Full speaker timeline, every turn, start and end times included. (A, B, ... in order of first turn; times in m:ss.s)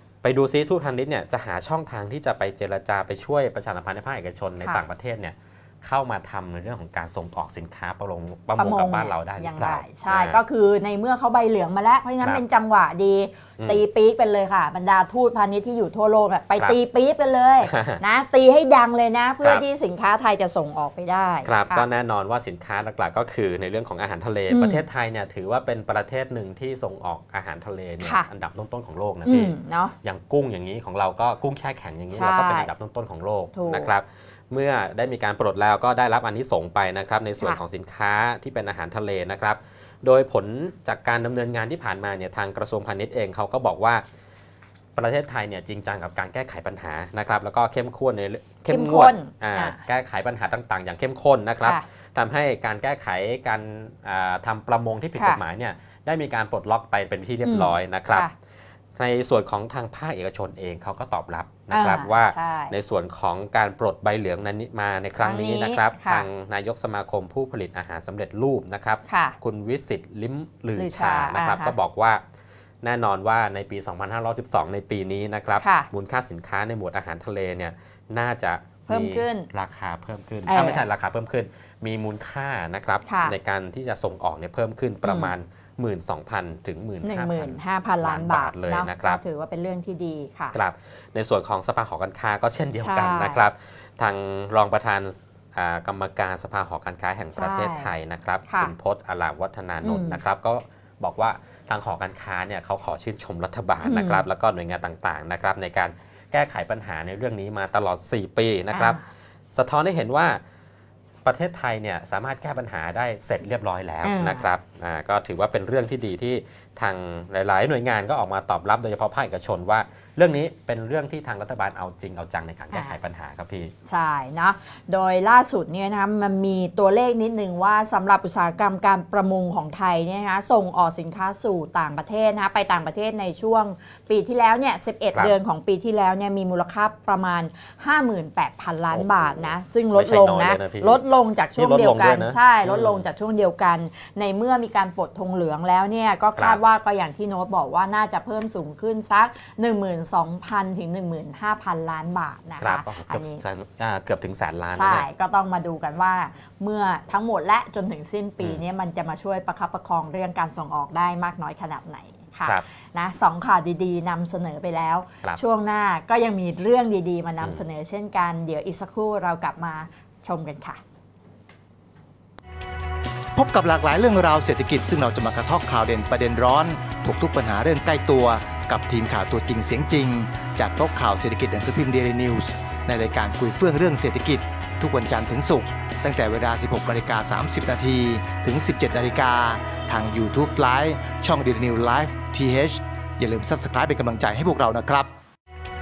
0:00.2-0:10.4 A
0:08.6-0:21.9 B
0:17.6-0:18.0 A
0:21.4-0:44.0 A
0:24.5-0:24.8 B
0:28.0-0:28.2 B
0:29.2-0:29.9 B
0:32.1-0:32.7 B
0:33.5-0:33.9 B
0:45.0-0:58.3 A
0:48.7-0:49.8 B
0:57.4-0:58.3 B
0:59.0-1:12.2 A
1:01.7-1:02.7 B
1:05.2-1:06.2 B
1:09.1-1:09.4 B
1:10.8-1:11.7 B
1:12.8-1:29.2 A
1:15.6-1:15.9 B
1:18.9-1:19.5 B
1:20.5-1:20.8 B
1:23.0-1:23.4 B
1:25.0-1:25.3 B
1:27.0-1:30.6 B
1:30.5-1:49.0 A
1:32.8-1:33.4 B
1:37.3-1:37.9 B
1:38.5-1:38.7 B
1:39.8-1:40.2 B
1:43.8-1:44.2 B
1:48.7-1:49.0 B
1:49.5-1:50.4 A
1:51.2-2:03.7 A
1:54.0-1:54.5 B
2:02.7-2:03.0 B
2:03.9-2:33.4 B
2:18.9-2:21.0 A
2:21.6-2:23.0 A
2:32.6-2:35.0 A
2:34.7-2:50.8 B
2:53.3-3:15.1 C